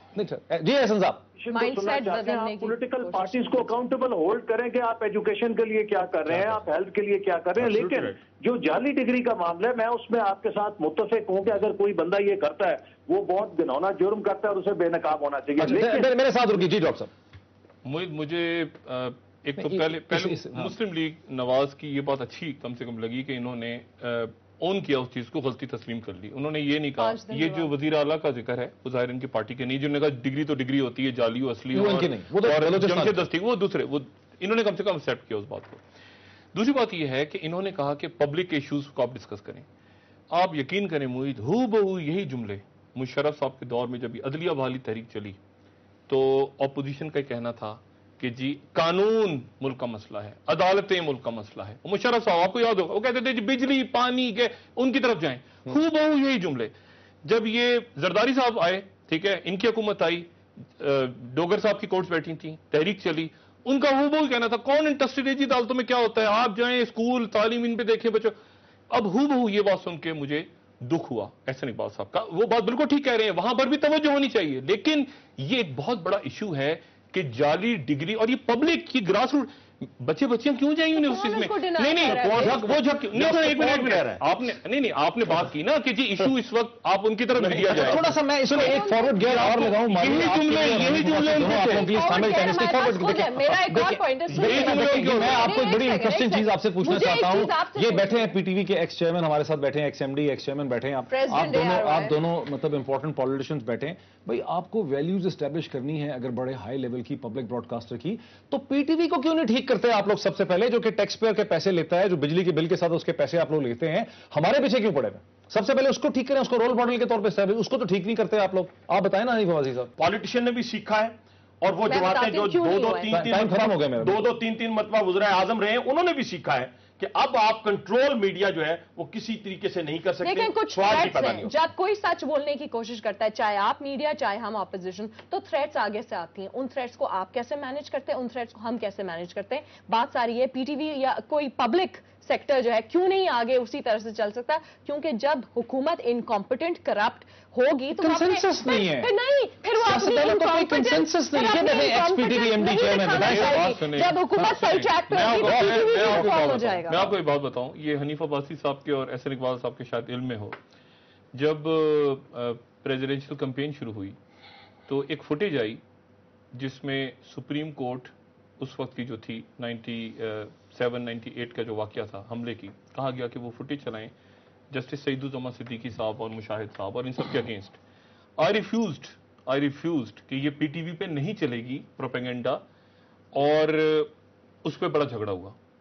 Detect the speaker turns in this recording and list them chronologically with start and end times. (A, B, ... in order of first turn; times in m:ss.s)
0:00.1-0:01.2 A
0:01.4-0:16.1 B
0:01.5-0:03.8 C
0:07.6-0:08.2 D
0:15.6-0:17.1 A
0:17.8-0:35.8 E
0:19.6-0:20.8 A
0:27.0-0:27.8 C
0:31.7-0:33.2 A
0:36.5-0:39.6 E
0:40.3-0:45.4 E
0:46.1-0:56.7 E
0:57.2-1:00.3 E
1:00.8-1:08.4 E
1:08.9-1:28.1 E
1:20.9-1:22.6 C
1:22.0-1:24.2 D
1:27.4-1:28.0 D
1:27.7-1:59.9 A
1:28.5-1:29.7 C
1:29.3-1:31.8 E
1:31.5-1:38.4 C
1:34.4-1:35.5 E
1:41.1-1:42.2 C
2:00.0-2:11.5 D
2:01.8-2:03.2 C
2:01.8-2:04.0 B
2:03.1-2:04.3 A
2:10.2-2:37.2 C
2:28.0-2:29.1 A
2:29.7-2:33.8 A
2:33.1-2:40.6 E
2:35.3-2:36.6 A
2:41.3-2:44.2 E
2:44.9-2:45.8 E
2:46.5-2:54.1 E
2:54.7-2:57.8 E
2:58.4-3:02.6 E
3:03.3-3:04.1 E
3:04.6-3:05.5 E